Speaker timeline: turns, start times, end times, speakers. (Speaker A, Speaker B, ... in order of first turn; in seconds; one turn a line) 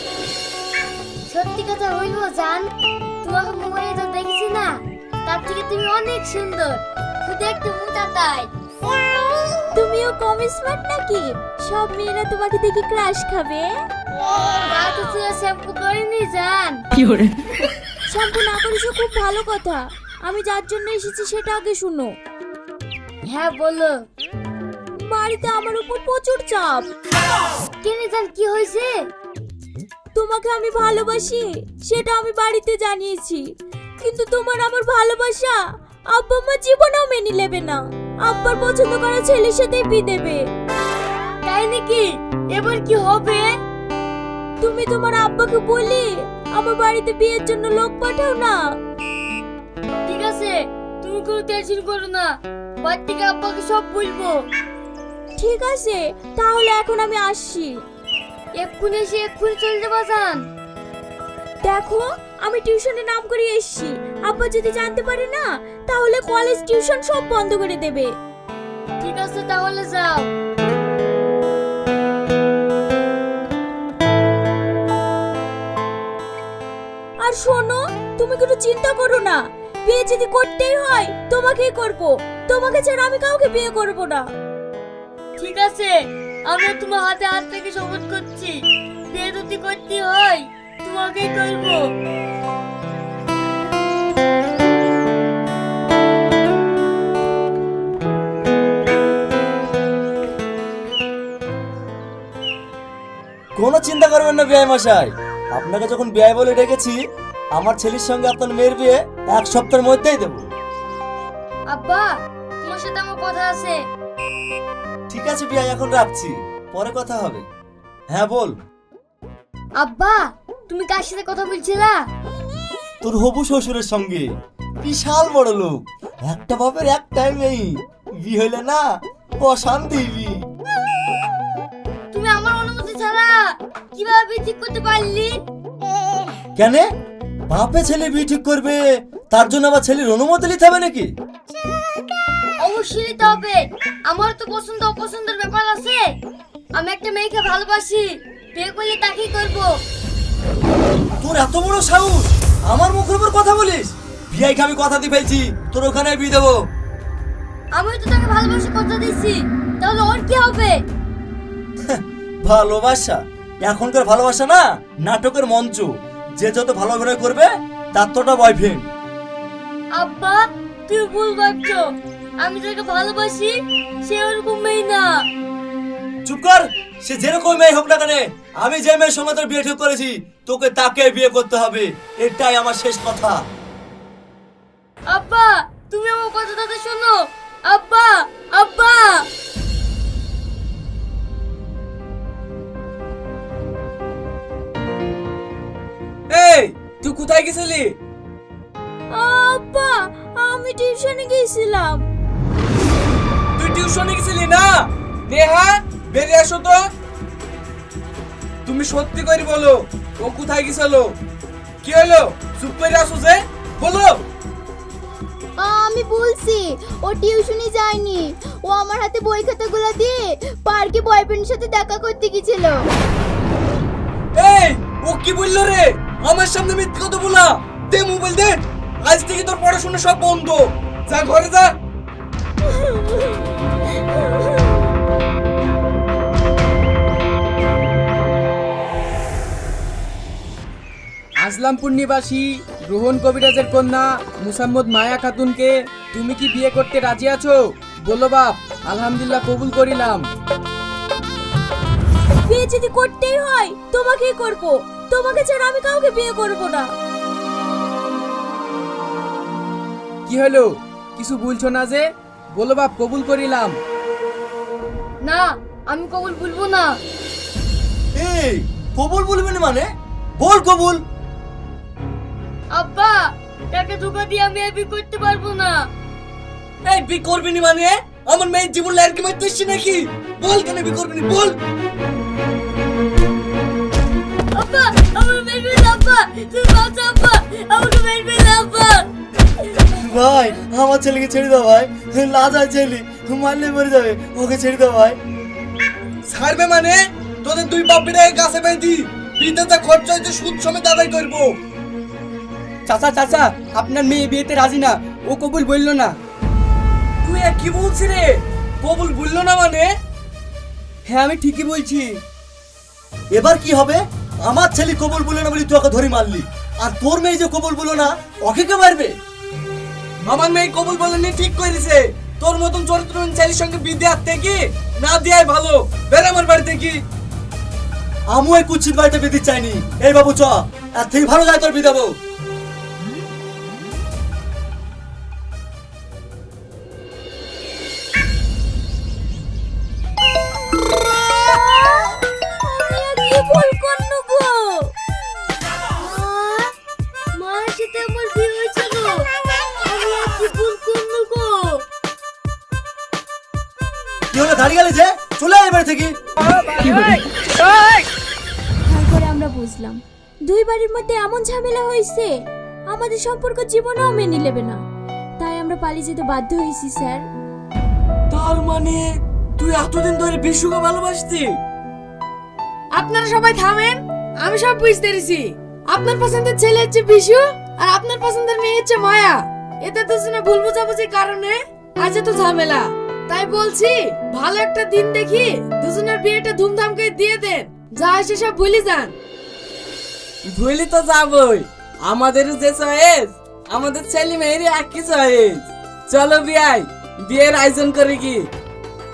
Speaker A: 1.3-2.7
Speaker A: 3.2-8.5
Speaker B: 9.7-13.7
Speaker A: 14.2-16.8
Speaker B: 18.1-22.1
Speaker A: 23.3-23.9
Speaker B: 25.0-26.9
Speaker A: 27.8-28.9
Speaker B: 30.1-33.4
Speaker B: 34.0-35.6
Speaker B: 36.1-40.4
Speaker A: 41.5-43.5
Speaker B: 44.6-48.6
Speaker A: 50.1-52.3
Speaker A: 52.8-54.3
Speaker B: 55.4-57.8
Speaker A: 58.6-60.4
Speaker B: 61.6-68.1
Speaker A: 69.0-70.3
Speaker B: 77.2-84.2
Speaker A: 85.4-85.9
Speaker A: 86.5-88.5
Speaker A: 89.1-91.8
Speaker C: 103.5-107.0
Speaker C: 107.5-110.5
Speaker A: 111.7-112.1
Speaker A: 112.6-113.8
Speaker C: 115.1-117.4
Speaker C: 118.1-118.5
Speaker A: 119.8-122.0
Speaker C: 123.0-124.3
Speaker C: 124.8-128.8
Speaker C: 129.4-130.4
Speaker A: 132.1-133.4
Speaker A: 133.9-135.3
Speaker C: 136.6-136.8
Speaker C: 137.5-138.8
Speaker C: 139.3-141.1
Speaker A: 142.6-146.0
Speaker A: 146.8-149.7
Speaker C: 151.2-156.6
Speaker A: 157.7-160.8
Speaker C: 161.8-168.9
Speaker A: 170.0-171.8
Speaker A: 172.4-173.5
Speaker A: 174.0-175.1
Speaker C: 176.2-183.4
Speaker A: 185.1-187.2
Speaker A: 187.7-189.2
Speaker D: 196.3-197.9
Speaker B: 199.1-202.0
Speaker D: 203.6-206.8
Speaker D: 208.7-211.1
Speaker D: 211.8-214.2
Speaker E: 215.6-222.8
Speaker D: 224.3-231.7
Speaker B: 232.7-233.2
Speaker F: 241.4-242.4
Speaker F: 243.1-245.2
Speaker D: 247.2-247.5
Speaker D: 248.1-248.7
Speaker D: 249.5-250.2
Speaker B: 252.4-256.9
Speaker D: 261.2-262.0
Speaker D: 262.6-263.8
Speaker A: 265.2-266.9
Speaker C: 268.2-269.9
Speaker C: 270.4-271.0
Speaker A: 272.7-273.2
Speaker A: 273.7-275.8
Speaker D: 276.8-281.6
Speaker A: 284.5-289.1
Speaker C: 289.9-295.1
Speaker D: 296.3-301.6
Speaker D: 302.9-306.1
Speaker D: 307.2-309.9
Speaker D: 311.1-312.2
Speaker C: 313.3-319.1
Speaker D: 320.2-327.0
Speaker C: 328.3-332.1
Speaker B: 341.3-344.9
Speaker A: 346.0-346.7
Speaker A: 347.3-351.8
Speaker C: 354.3-356.1
Speaker B: 358.9-362.3
Speaker B: 362.9-364.8
Speaker B: 365.4-367.2
Speaker D: 368.3-371.6
Speaker G: 372.9-389.1
Speaker D: 390.5-398.5